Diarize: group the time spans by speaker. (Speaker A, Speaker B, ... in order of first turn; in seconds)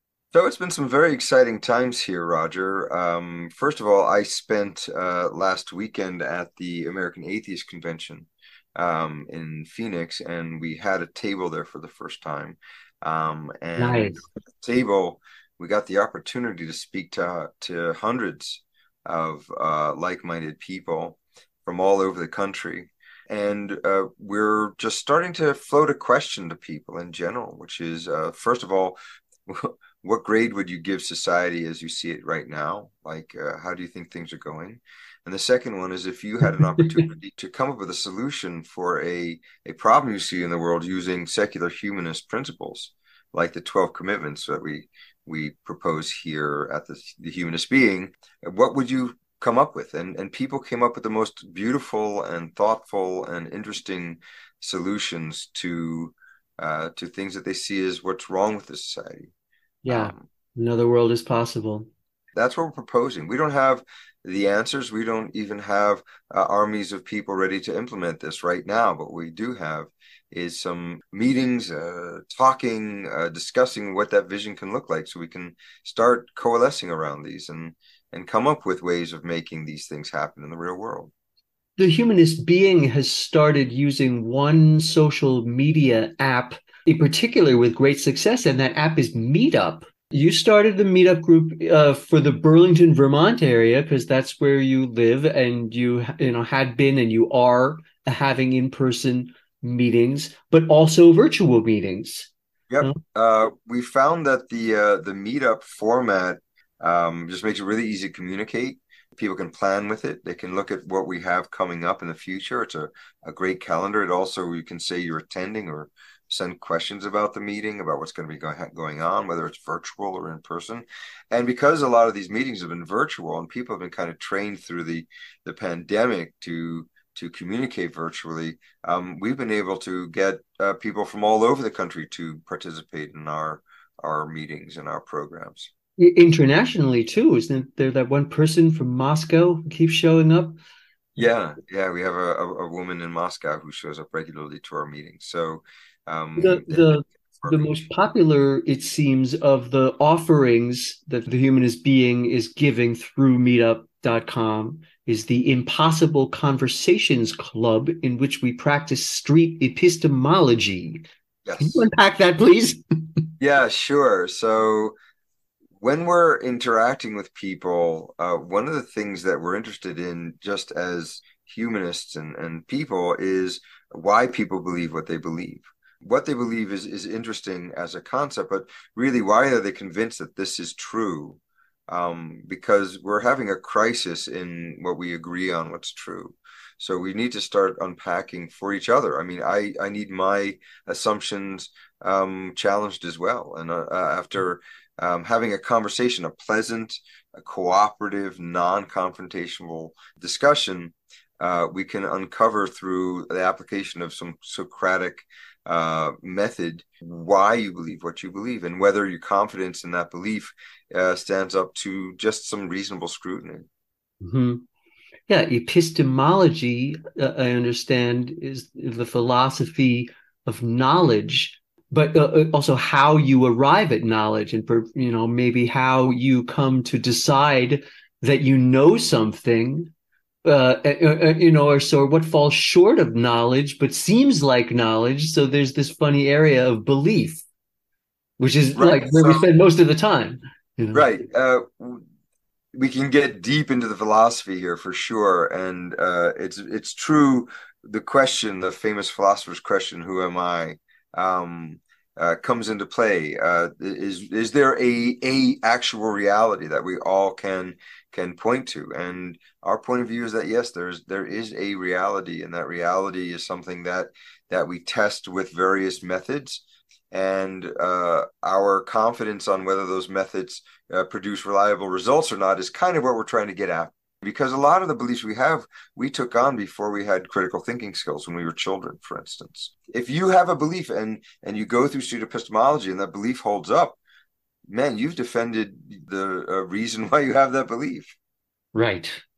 Speaker A: 0.3-59.3, 59.9-60.2, 62.4-81.1, 102.7-135.7, 141.2-147.8, 161.4-161.8, 163.4-164.9, 165.8-213.7, 238.7-239.5, 240.9-242.0, 242.7-284.0, 284.7-288.1
Speaker B: 13.8-14.2, 59.8-61.9, 81.8-102.3, 136.0-140.6, 146.4-161.1, 161.6-163.2, 214.2-214.6, 215.3-229.9, 230.4-237.4, 238.4-241.1, 288.7-289.2